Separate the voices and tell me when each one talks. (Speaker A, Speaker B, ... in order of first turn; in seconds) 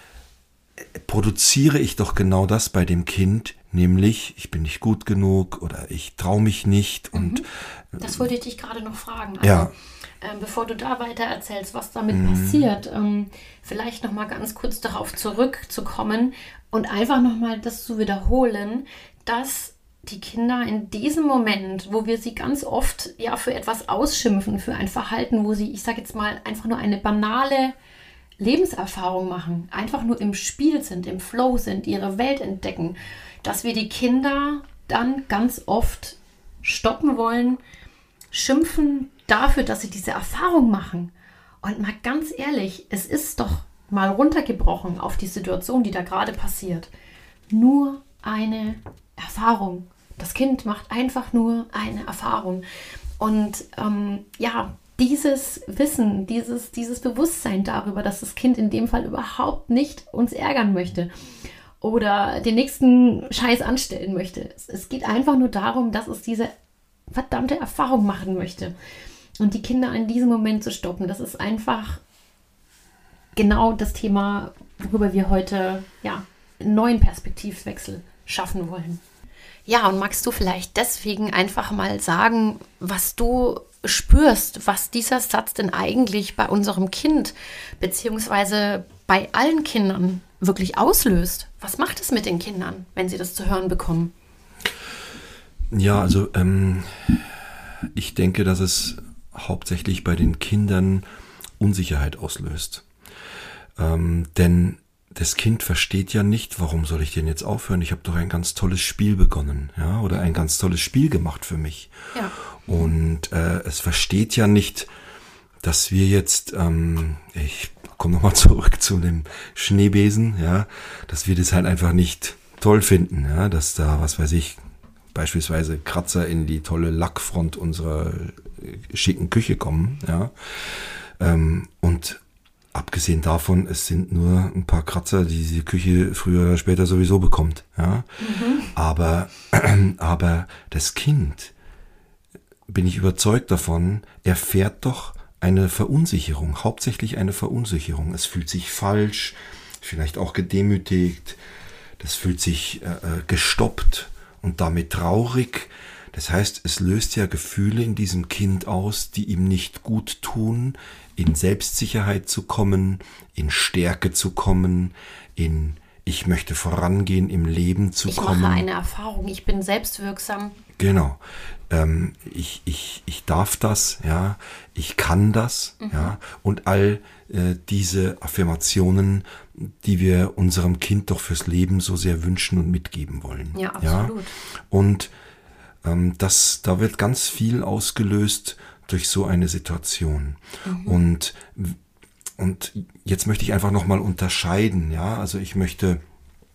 Speaker A: 0.9-8.3, 9.4-9.7, 12.1-12.7, 95.7-97.3, 98.0-101.0, 101.6-102.8, 103.8-111.9, 112.7-114.9, 115.6-124.6, 125.1-132.2, 132.7-138.1, 138.7-141.5, 142.7-151.4, 152.0-168.7, 170.8-184.1, 184.7-185.1, 185.8-191.8, 192.4-196.0
Speaker B: 7.2-7.4, 8.0-27.8, 28.4-37.6, 38.3-41.1, 41.6-46.9, 47.5-52.6, 53.2-61.1, 61.8-66.5, 67.1-68.7, 69.4-72.0, 73.4-79.0, 79.7-94.1, 112.1-112.9, 138.2-138.7, 168.1-170.6, 175.8-176.2, 183.5-184.3, 190.7-191.0